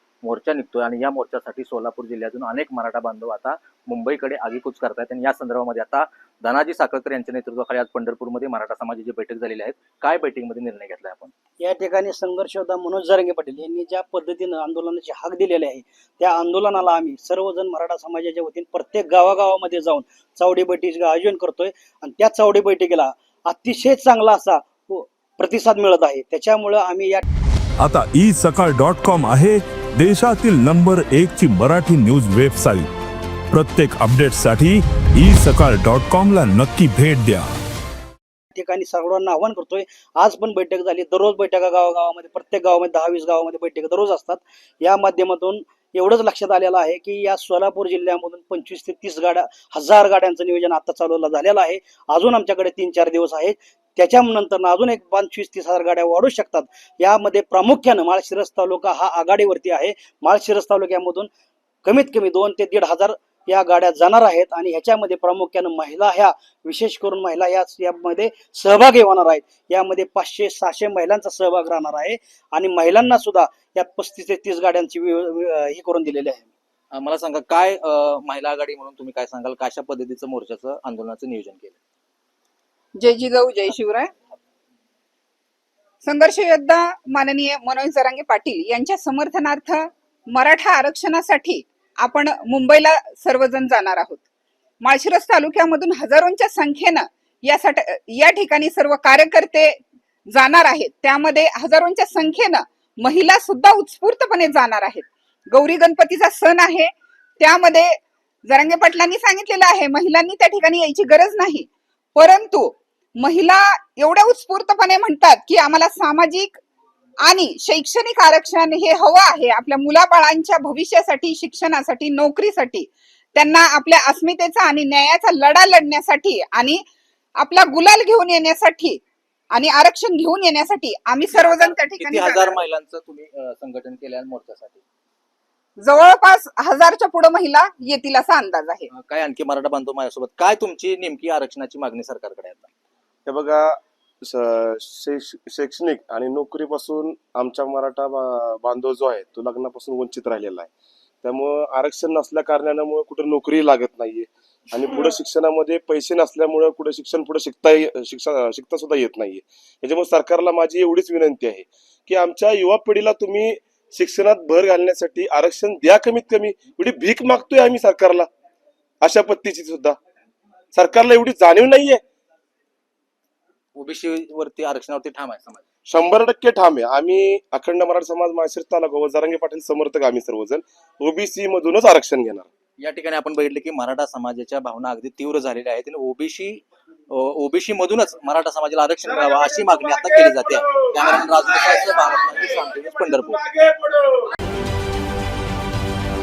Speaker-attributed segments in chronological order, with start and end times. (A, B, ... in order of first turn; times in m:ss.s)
0:00.2-0:11.3 A
0:11.6-0:27.2 B
0:27.8-0:32.9 C
0:33.5-0:37.5 C
0:38.5-1:01.3 B
1:01.8-1:16.5 B
1:16.9-1:21.8 A
1:23.0-1:24.1 D
1:26.0-1:34.2 D
1:34.8-1:39.8 D
1:40.3-1:47.9 D
1:48.5-1:56.6 D
1:57.2-2:06.8 D
2:07.4-2:09.0 D
2:09.5-2:12.6 D
2:11.3-2:14.8 A
2:15.8-2:18.9 D
2:18.9-2:22.7 A
2:23.2-2:30.7 E
2:31.2-2:48.3 E
2:49.0-2:50.0 E
2:50.7-2:52.0 E
2:53.8-2:55.6 A
2:55.9-3:02.5 E
3:02.8-3:13.4 A
3:09.1-3:14.1 E